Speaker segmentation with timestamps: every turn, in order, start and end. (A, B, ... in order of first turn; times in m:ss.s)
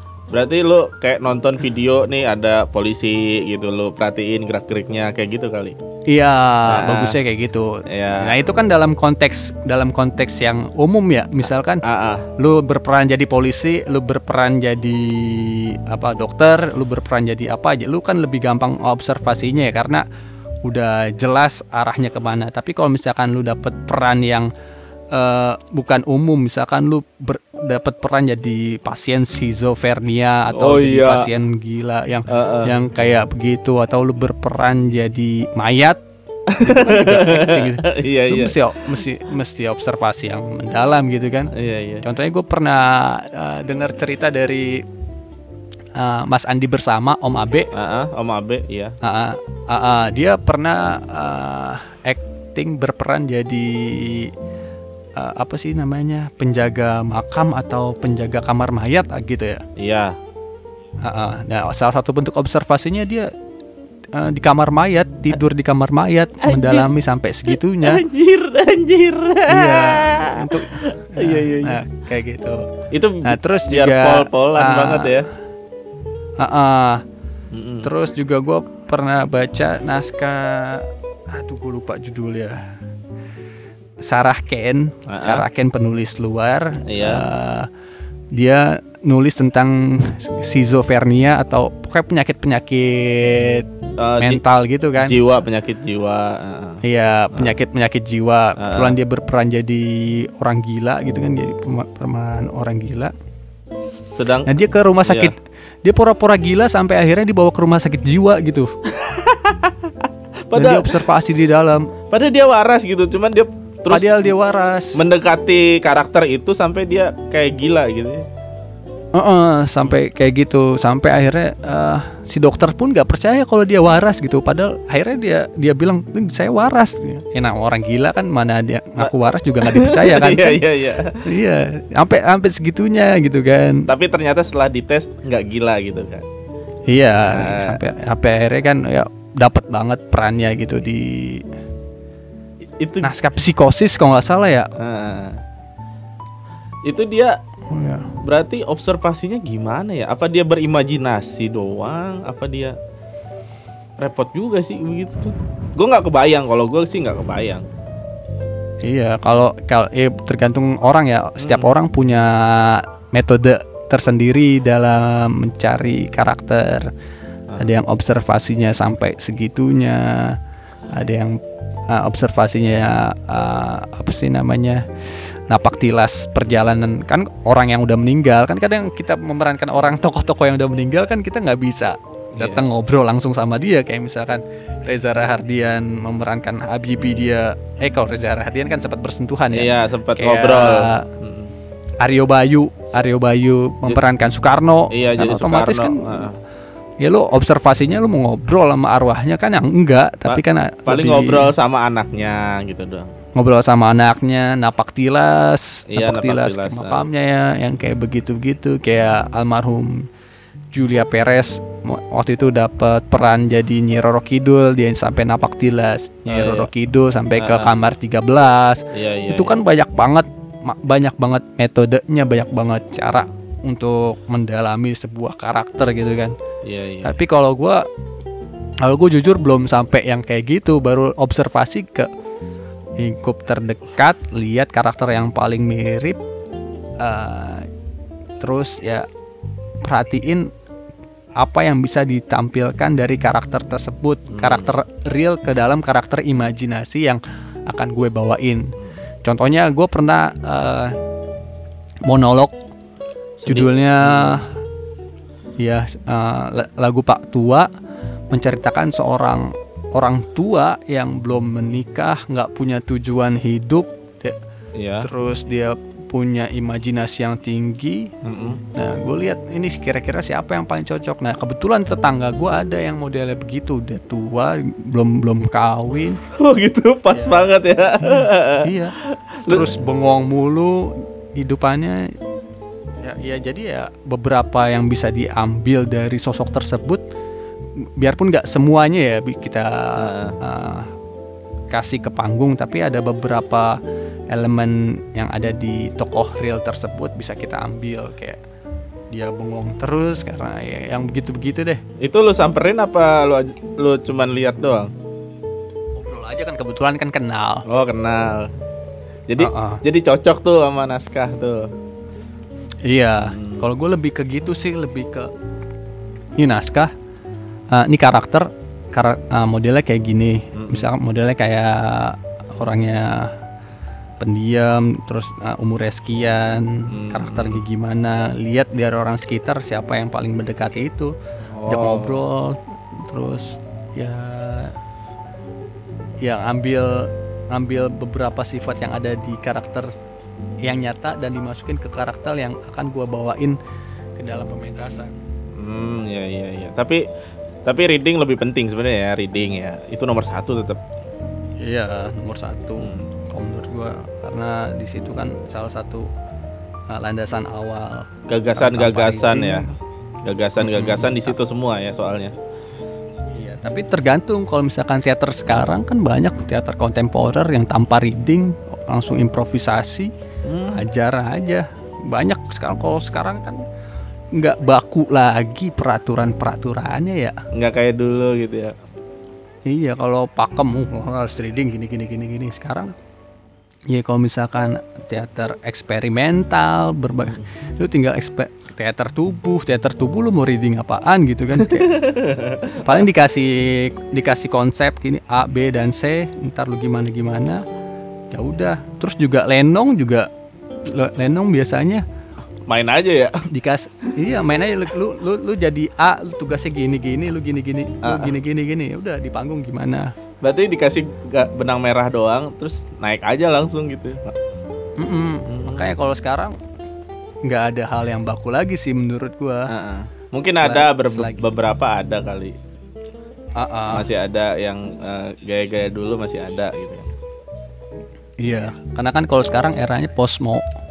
0:00.3-0:05.8 A
0:06.1-0:11.8 B
0:06.7-0:07.2 A
0:07.9-0:08.4 A
0:11.8-0:12.3 A
0:12.4-0:20.0 B
0:20.6-0:24.5 B
0:25.1-0:36.0 B
0:30.5-0:31.3 A
0:32.3-0:32.7 A
0:36.5-0:38.6 A
0:36.6-0:41.5 B
0:41.5-0:42.0 A
0:42.0-0:44.8 B
0:46.0-0:47.7 B
0:47.7-0:49.0 A
0:49.0-0:54.3 B
0:55.2-0:59.6 B
0:59.8-1:00.2 A
1:01.0-1:03.3 B
1:04.1-1:08.0 B
1:06.4-1:06.9 A
1:07.8-1:11.8 A
1:09.5-1:12.7 B
1:12.9-1:15.3 A
1:13.2-1:15.2 B
1:16.4-1:17.0 B
1:17.5-1:17.9 A
1:17.8-1:22.6 B
1:24.0-1:27.7 B
1:25.1-1:25.5 A
1:26.9-1:27.3 A
1:28.3-1:33.7 B
1:34.0-1:34.4 A
1:34.2-1:35.2 B
1:35.0-1:36.8 A
1:36.8-1:43.1 B
1:38.6-1:39.0 A
1:44.1-1:44.5 A
1:44.5-1:48.7 B
1:45.0-1:45.3 A
1:48.9-1:50.9 A
1:50.5-1:51.9 B
1:52.1-1:54.2 A
1:53.9-1:55.0 B
1:55.0-1:58.2 A
1:59.1-2:10.6 B
2:09.0-2:11.2 A
2:11.3-2:13.9 B
2:13.9-2:16.3 A
2:16.9-2:21.5 B
2:17.3-2:17.8 A
2:22.8-2:23.1 A
2:23.0-2:24.7 B
2:24.8-2:25.4 A
2:26.9-2:27.4 A
2:27.7-2:28.1 B
2:28.2-2:32.8 A
2:34.0-2:37.7 A
2:38.8-2:46.9 B
2:41.4-2:41.7 A
2:47.6-2:50.4 B
2:50.9-3:11.1 B
3:02.4-3:02.6 A
3:09.5-3:11.5 A
3:12.0-3:16.1 B
3:14.9-3:16.4 A
3:17.0-3:21.5 B
3:20.3-3:23.1 A
3:23.4-3:30.1 B
3:25.9-3:27.1 A
3:30.7-3:46.4 B
3:36.3-3:36.7 A
3:37.4-3:37.7 A
3:38.9-3:39.6 A
3:46.6-3:47.1 A
3:47.0-3:47.8 B
3:48.8-3:52.1 B
3:53.0-3:56.2 B
3:57.0-3:57.7 B
3:58.4-3:59.1 B
3:59.8-4:00.5 B
4:01.4-4:11.0 B
4:04.3-4:04.7 A
4:12.1-4:12.5 B
4:13.4-4:14.4 A
4:13.5-4:14.5 B
4:15.6-4:17.7 B
4:18.3-4:24.4 B
4:24.8-4:25.1 A
4:25.0-4:28.1 B
4:28.2-4:28.6 A
4:28.8-4:36.2 B
4:36.3-4:38.9 A
4:37.1-4:37.5 B
4:38.2-4:39.0 B
4:39.4-4:39.8 A
4:39.5-4:42.1 B
4:43.0-4:47.0 B
4:48.0-4:50.9 B
4:50.0-4:50.4 A
4:51.7-4:53.8 B
4:54.3-4:58.4 B
4:59.1-5:01.8 B
5:02.0-5:04.9 A
5:06.0-5:07.6 B
5:07.7-5:08.5 A
5:09.3-5:11.7 A
5:09.4-5:09.8 B
5:12.9-5:15.3 B
5:13.2-5:13.7 A
5:16.4-5:16.9 B
5:17.7-5:23.3 B
5:20.5-5:20.9 A
5:24.2-5:31.1 B
5:26.9-5:27.6 A
5:31.5-5:32.2 A
5:31.7-5:34.8 B
5:36.2-5:39.9 B
5:40.6-5:43.6 B
5:44.2-5:45.2 B
5:45.6-5:47.0 A
5:47.7-5:50.8 A
5:51.6-5:56.1 B
5:52.8-5:53.1 A
5:56.9-5:59.8 B
5:58.3-5:59.7 A
6:00.2-6:02.3 A
6:00.6-6:01.4 B
6:03.4-6:10.1 B
6:10.4-6:10.8 A
6:10.7-6:13.6 B
6:14.3-6:17.4 B
6:17.5-6:18.7 A
6:19.7-6:23.0 B
6:23.9-6:31.9 B
6:31.6-6:33.0 A
6:32.8-6:37.6 B
6:38.3-6:40.3 B
6:40.8-6:42.0 B
6:42.7-6:43.5 A
6:43.5-6:50.1 B
6:48.0-6:48.3 A
6:50.4-6:54.4 A
6:55.0-6:56.5 B
6:55.5-6:55.9 A
6:57.5-6:59.7 B
6:59.7-7:02.6 A
7:00.6-7:01.4 B
7:03.6-7:04.1 B
7:03.9-7:07.1 A
7:08.4-7:10.6 B